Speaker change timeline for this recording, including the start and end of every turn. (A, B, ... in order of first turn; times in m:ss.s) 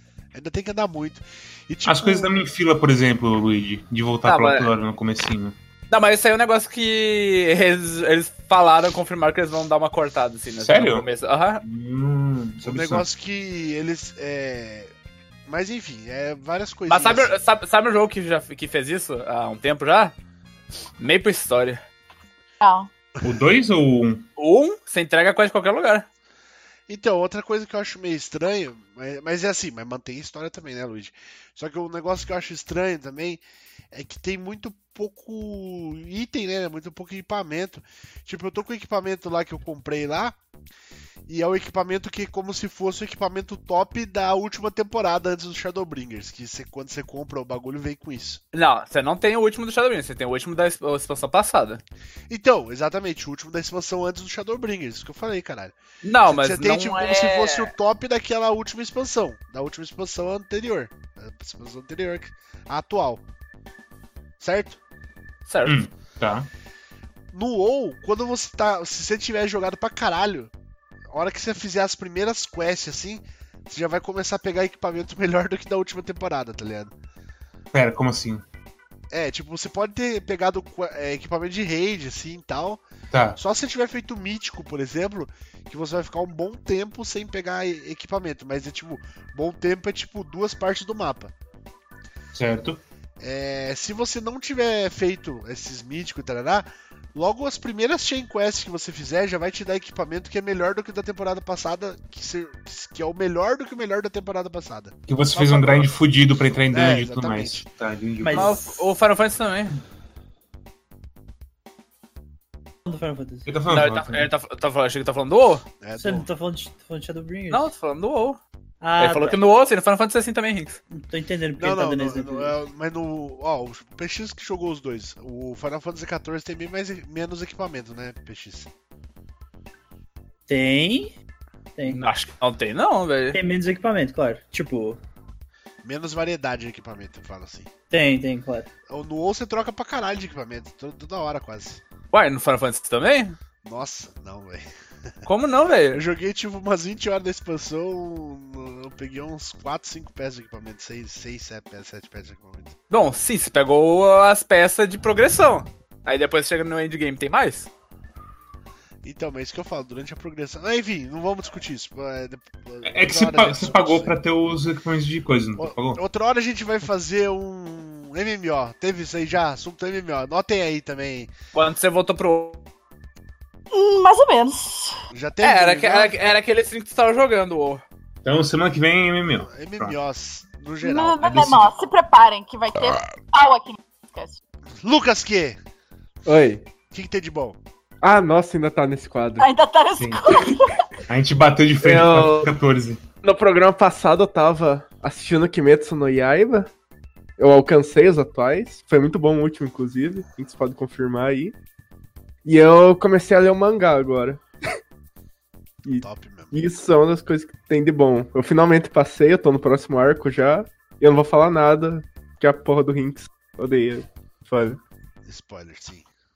0:00.3-0:02.3 A
0:01.8-0:05.5 B
0:04.2-0:04.7 C
0:05.9-0:11.6 C
0:10.6-0:11.0 B
0:11.6-0:13.0 B
0:12.6-0:14.9 A
0:15.5-0:17.3 A
0:16.9-0:20.1 C
0:21.0-0:21.8 C
0:22.6-0:22.9 D
0:23.2-0:24.2 B
0:24.4-0:26.0 C
0:26.9-0:40.4 A
0:41.3-0:48.4 A
0:48.5-0:51.8 C
0:52.3-0:55.8 A
0:56.0-0:57.7 C
0:56.3-1:03.2 A
1:04.4-1:04.8 A
1:05.5-1:05.8 C
1:05.6-1:06.5 B
1:07.3-1:10.5 A
1:11.1-1:16.9 A
1:17.7-1:18.4 B
1:19.1-1:22.8 A
1:23.1-1:23.4 B
1:23.4-1:31.3 A
1:32.3-1:32.8 B
1:33.2-1:45.9 A
1:45.1-1:48.5 B
1:46.7-1:47.6 A
1:48.2-1:48.8 E
1:48.3-1:49.8 C
1:52.8-1:53.5 E
1:53.5-1:54.3 B
1:53.7-1:55.6 C
1:55.8-1:56.2 A
1:56.0-1:57.7 E
1:57.5-1:58.4 C
1:58.8-1:59.4 E
1:59.0-2:00.8 C
2:00.9-2:02.5 E
2:01.6-2:08.7 A
2:10.5-2:11.1 E
2:11.8-2:12.0 E
2:11.9-2:13.4 C
2:13.3-2:15.0 E
2:15.8-2:17.7 A
2:17.9-2:18.7 E
2:18.9-2:21.8 A
2:22.1-2:23.4 C
2:23.6-2:24.7 A
2:25.2-2:26.0 C
2:25.9-2:32.8 A
2:32.9-2:37.7 C
2:39.0-2:44.2 A
2:42.8-2:46.0 B
2:45.6-2:51.3 A
2:51.5-2:52.6 C
2:53.7-2:55.0 D
2:55.1-2:56.2 A
2:55.4-2:57.8 C
2:58.2-3:00.0 B
2:59.5-3:01.7 A
3:00.8-3:04.4 D
3:01.3-3:01.6 B
3:04.8-3:05.6 A
3:06.2-3:06.6 F
3:06.9-3:07.6 A
3:08.0-3:09.5 F
3:09.4-3:10.8 D
3:10.0-3:10.5 B
3:11.1-3:13.0 B
3:11.8-3:12.5 F
3:13.2-3:16.7 F
3:17.4-3:21.5 F
3:22.4-3:24.4 F
3:25.8-3:34.8 F
3:26.0-3:26.6 A
3:35.2-3:36.1 A